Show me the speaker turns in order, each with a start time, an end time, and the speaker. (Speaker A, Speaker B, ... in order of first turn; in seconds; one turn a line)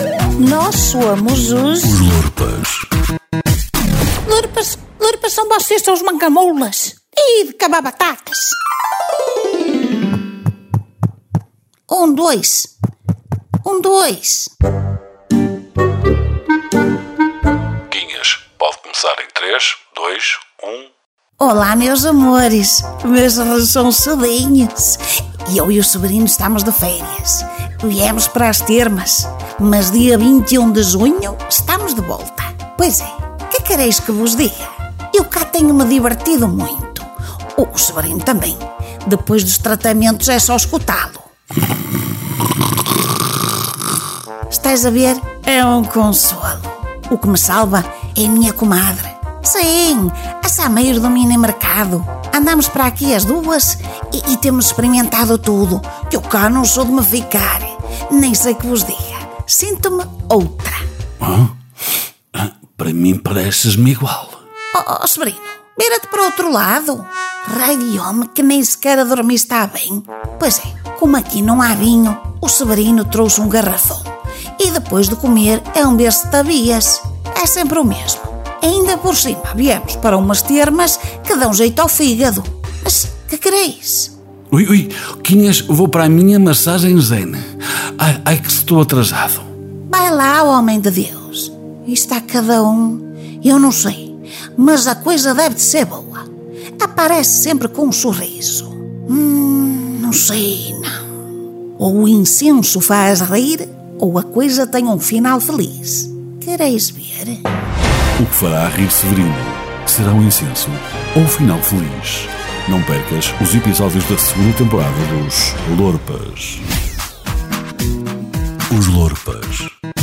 Speaker A: 0.4-2.1
Speaker B: 1.8-2.8
Speaker A: 4.2-8.6
Speaker A: 11.9-12.7
Speaker A: 13.6-14.5
Speaker B: 17.9-20.9
Speaker A: 21.4-41.3
Speaker A: 44.5-60.8
Speaker B: 61.2-61.5
Speaker B: 62.3-64.4
Speaker A: 64.7-84.1
Speaker B: 84.5-89.5
Speaker A: 89.9-96.3
Speaker A: 96.8-101.0
Speaker A: 101.8-107.5
Speaker B: 108.2-116.6
Speaker B: 118.7-119.7